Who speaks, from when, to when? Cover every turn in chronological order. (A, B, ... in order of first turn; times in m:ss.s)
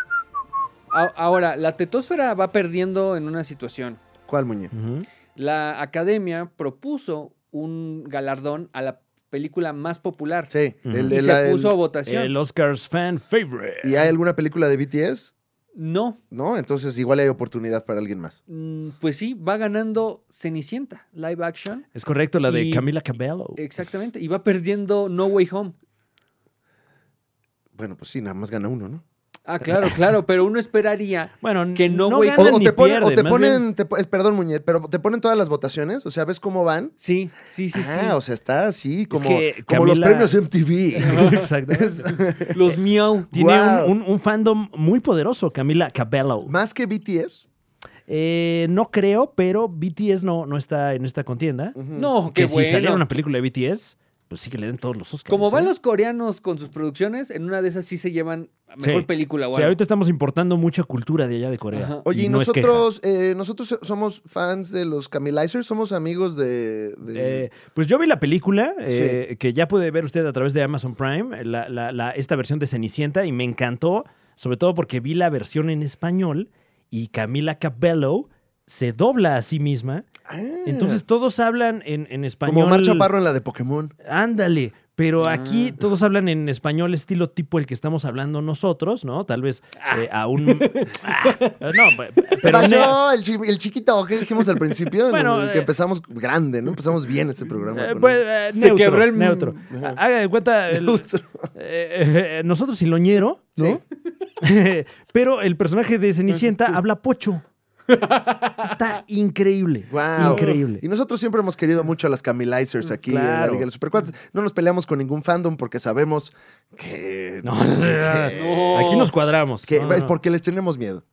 0:00.9-0:04.0 A
0:04.3-0:04.7 B
0:04.7-0:05.0 C
0:05.4-0:10.5 A
0:10.5-0:11.7 B
0:10.9-0:11.2 C
0:11.1-0:12.3 A
0:12.0-0:14.1 C
0:13.8-0:15.3 B
0:15.7-0:16.2 A
0:16.3-0:18.4 B
0:18.5-0:21.8 A
0:21.9-0:23.6 C
0:22.4-0:22.9 A
0:23.6-0:25.8 A
0:27.8-0:29.0 B
0:29.4-0:32.6 A
0:31.4-0:33.6 C
0:32.4-0:36.9 B
0:37.0-0:38.2 A
0:37.7-0:42.6 B
0:39.1-0:40.4 C
0:41.0-0:42.2 C
0:41.0-0:41.5 A
0:42.5-0:43.3 A
0:43.3-0:46.5 C
0:43.3-0:43.9 B
0:46.4-0:47.4 B
0:48.1-0:55.7 C
0:51.8-0:52.1 B
0:51.9-0:53.0 A
0:55.3-0:59.8 A
0:58.8-1:02.8 C
1:01.7-1:02.0 A
1:02.0-1:07.4 B
1:07.1-1:20.1 C
1:08.9-1:09.2 B
1:20.2-1:21.0 B
1:20.6-1:23.1 C
1:22.4-1:23.9 B
1:24.0-1:33.0 C
1:25.2-1:25.8 A
1:29.8-1:32.8 A
1:32.4-1:38.2 B
1:35.1-1:35.7 C
1:37.7-1:43.8 C
1:38.5-1:39.6 A
1:39.7-1:40.0 B
1:40.7-1:41.5 B
1:44.4-1:47.4 C
1:47.9-1:48.7 A
1:48.6-1:50.8 C
1:49.9-1:59.0 B
1:50.2-1:50.6 A
1:53.0-1:53.7 C
1:57.4-2:00.1 C
1:58.3-1:59.1 A
1:59.7-2:01.0 B